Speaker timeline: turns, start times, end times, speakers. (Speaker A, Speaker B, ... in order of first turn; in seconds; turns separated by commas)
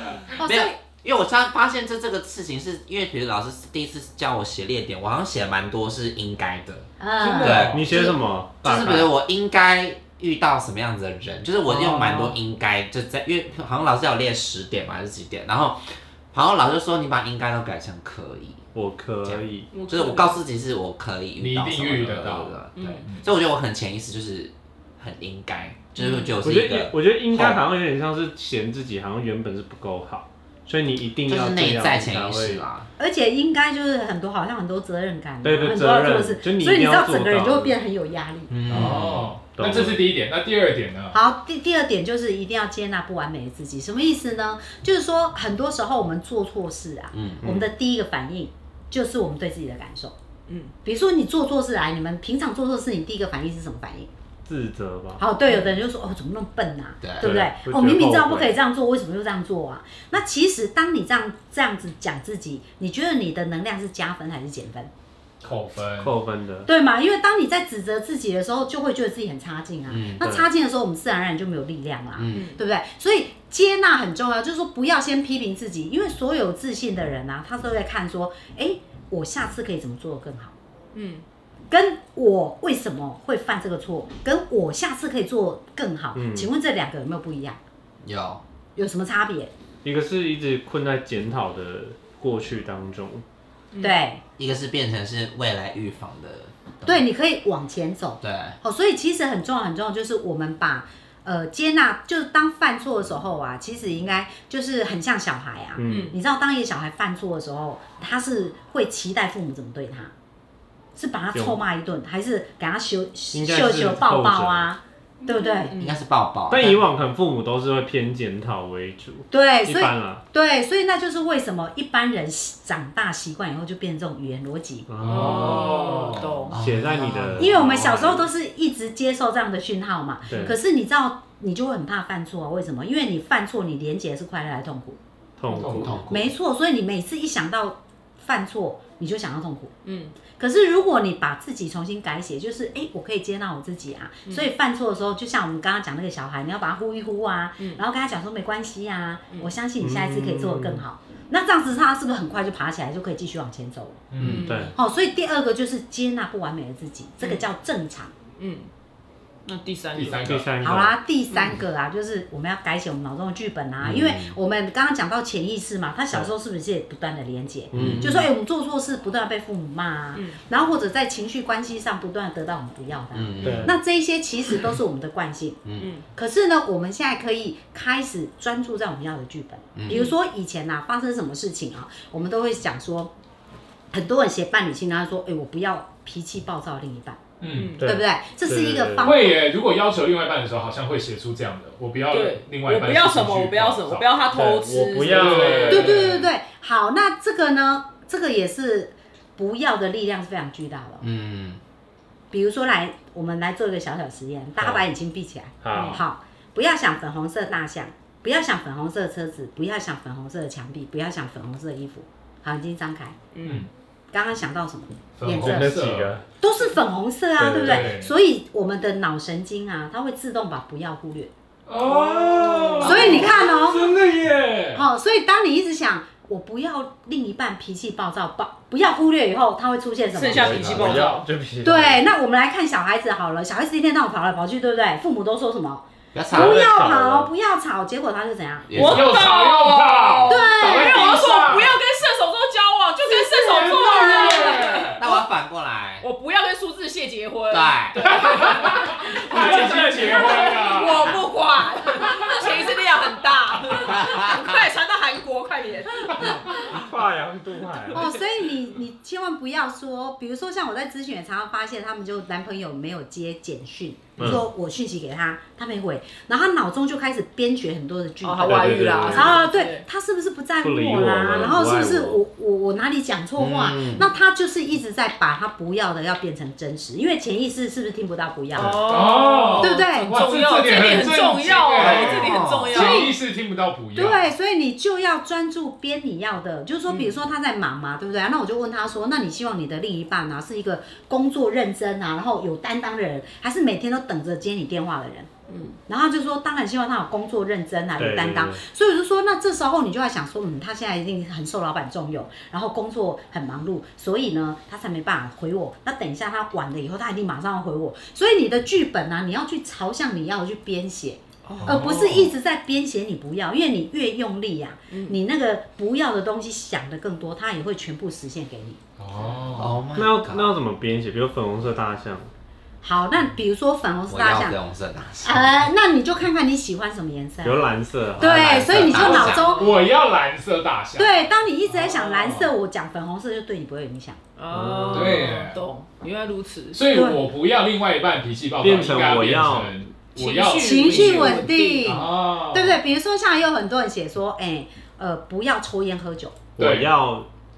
Speaker A: 0.4-0.8, Speaker B: 0.4-6.9, Speaker A: 7.0-8.2, Speaker C: 7.2-7.8, Speaker B: 7.4-15.8, Speaker D: 7.4-9.1, Speaker B: 16.3-18.6, Speaker D: 18.7-19.7, Speaker B: 19.2-27.6, Speaker E: 19.7-20.4, Speaker C: 21.4-23.2, Speaker E: 22.8-23.1, Speaker E: 26.0-26.3, Speaker D: 26.4-32.7, Speaker B: 31.3-32.9, Speaker A: 33.0-38.6, Speaker D: 35.4-37.8, Speaker B: 38.5-39.3, Speaker C: 38.7-41.2, Speaker D: 39.5-40.1, Speaker A: 41.1-50.1, Speaker B: 47.1-47.5, Speaker D: 47.4-47.7, Speaker E: 50.5-50.7, Speaker A: 50.8-54.1, Speaker D: 54.5-55.2, Speaker A: 55.2-64.9, Speaker E: 55.5-55.8, Speaker B: 57.0-57.3, Speaker D: 57.2-58.6, Speaker C: 65.4-66.1, Speaker D: 66.0-66.7, Speaker A: 66.7-80.5, Speaker B: 69.9-70.3, Speaker D: 70.2-70.5, Speaker B: 72.2-72.5, Speaker E: 72.3-72.6, Speaker E: 80.9-81.2, Speaker A: 81.7-87.6, Speaker D: 86.1-86.5, Speaker B: 88.0-88.4, Speaker A: 88.8-89.5, Speaker D: 89.8-93.2, Speaker E: 93.7-94.0, Speaker A: 93.8-94.2, Speaker B: 94.4-97.0, Speaker A: 96.8-110.1, Speaker B: 98.2-98.6, Speaker D: 105.8-106.2, Speaker E: 105.9-106.2, Speaker A: 111.0-115.8, Speaker D: 111.3-111.6, Speaker D: 113.3-114.7, Speaker E: 115.2-116.0, Speaker B: 115.8-116.9, Speaker D: 116.5-120.2, Speaker A: 119.3-124.9, Speaker D: 124.9-125.9, Speaker C: 125.0-126.4, Speaker E: 125.1-126.6, Speaker D: 126.5-128.2, Speaker B: 126.5-127.5, Speaker A: 127.4-135.0, Speaker C: 127.6-127.9, Speaker D: 130.3-130.6, Speaker D: 135.4-136.2, Speaker C: 135.5-136.0, Speaker B: 135.8-136.2, Speaker A: 136.1-139.7, Speaker E: 139.8-140.2, Speaker A: 140.3-154.1, Speaker D: 149.8-150.8, Speaker C: 154.1-154.5, Speaker E: 154.2-154.7, Speaker D: 154.3-154.7, Speaker A: 154.7-158.1, Speaker E: 157.2-157.5, Speaker E: 158.4-158.7, Speaker E: 159.5-160.4, Speaker C: 159.9-160.5, Speaker D: 160.2-161.0, Speaker A: 160.6-183.1, Speaker B: 163.8-164.4, Speaker B: 167.7-168.3, Speaker D: 167.7-168.3, Speaker E: 170.2-170.4, Speaker B: 173.1-173.7, Speaker D: 173.4-173.7, Speaker B: 175.7-176.0, Speaker E: 175.8-176.1, Speaker B: 179.8-180.1, Speaker E: 179.9-180.1, Speaker A: 183.9-187.2, Speaker C: 187.4-187.8, Speaker E: 187.5-187.9, Speaker D: 187.8-189.2, Speaker A: 187.8-189.4, Speaker C: 189.0-194.1, Speaker E: 192.1-195.9, Speaker D: 194.3-196.0, Speaker C: 195.0-196.3, Speaker A: 195.7-201.1, Speaker B: 201.0-201.6, Speaker A: 202.3-213.2, Speaker D: 204.6-204.8, Speaker D: 205.6-206.0, Speaker C: 205.7-206.0, Speaker E: 205.7-206.0, Speaker E: 213.3-213.7, Speaker A: 214.1-215.8, Speaker C: 215.2-216.1, Speaker D: 215.4-216.2, Speaker A: 216.4-221.3, Speaker D: 217.4-217.9, Speaker C: 217.6-218.1, Speaker C: 221.7-224.8, Speaker E: 221.9-223.3, Speaker D: 222.3-224.4, Speaker A: 222.8-223.9, Speaker A: 224.8-231.1, Speaker E: 230.1-231.2, Speaker D: 230.3-232.1, Speaker B: 230.4-230.8, Speaker A: 231.6-238.9, Speaker B: 236.1-236.8, Speaker D: 236.3-237.3, Speaker B: 238.7-239.2, Speaker E: 238.7-245.2, Speaker C: 238.8-241.8, Speaker A: 240.3-241.1, Speaker C: 243.2-245.0, Speaker A: 243.5-244.7, Speaker B: 244.9-246.1, Speaker E: 246.0-256.6, Speaker B: 247.5-248.1, Speaker C: 248.1-251.2, Speaker D: 249.4-249.8, Speaker B: 253.8-254.7, Speaker D: 256.2-258.1, Speaker A: 257.9-278.9, Speaker D: 264.2-264.5, Speaker E: 268.2-269.8, Speaker D: 268.4-269.4, Speaker D: 270.6-272.2, Speaker B: 273.4-274.1, Speaker E: 278.5-283.1, Speaker C: 278.9-284.3, Speaker A: 279.6-280.1, Speaker B: 281.9-282.8, Speaker A: 282.7-283.1, Speaker A: 284.0-295.3, Speaker E: 286.9-287.2, Speaker E: 295.5-295.8, Speaker A: 295.9-318.8, Speaker D: 298.0-298.6, Speaker E: 311.4-311.9, Speaker C: 311.6-312.3, Speaker E: 314.9-315.2, Speaker C: 319.0-319.8, Speaker B: 319.6-320.5, Speaker D: 319.9-322.3, Speaker A: 322.8-324.6, Speaker B: 324.1-325.6, Speaker A: 325.2-327.7, Speaker D: 327.4-328.6, Speaker A: 328.2-329.8, Speaker B: 328.2-329.6, Speaker C: 328.9-332.5, Speaker E: 329.1-329.7, Speaker A: 331.0-334.2, Speaker E: 334.4-336.8, Speaker D: 334.5-335.3, Speaker C: 334.9-335.6, Speaker C: 336.7-342.8, Speaker A: 336.9-337.2, Speaker D: 338.6-339.7, Speaker E: 340.2-341.9, Speaker A: 340.5-346.4, Speaker D: 346.6-347.3, Speaker C: 346.6-346.9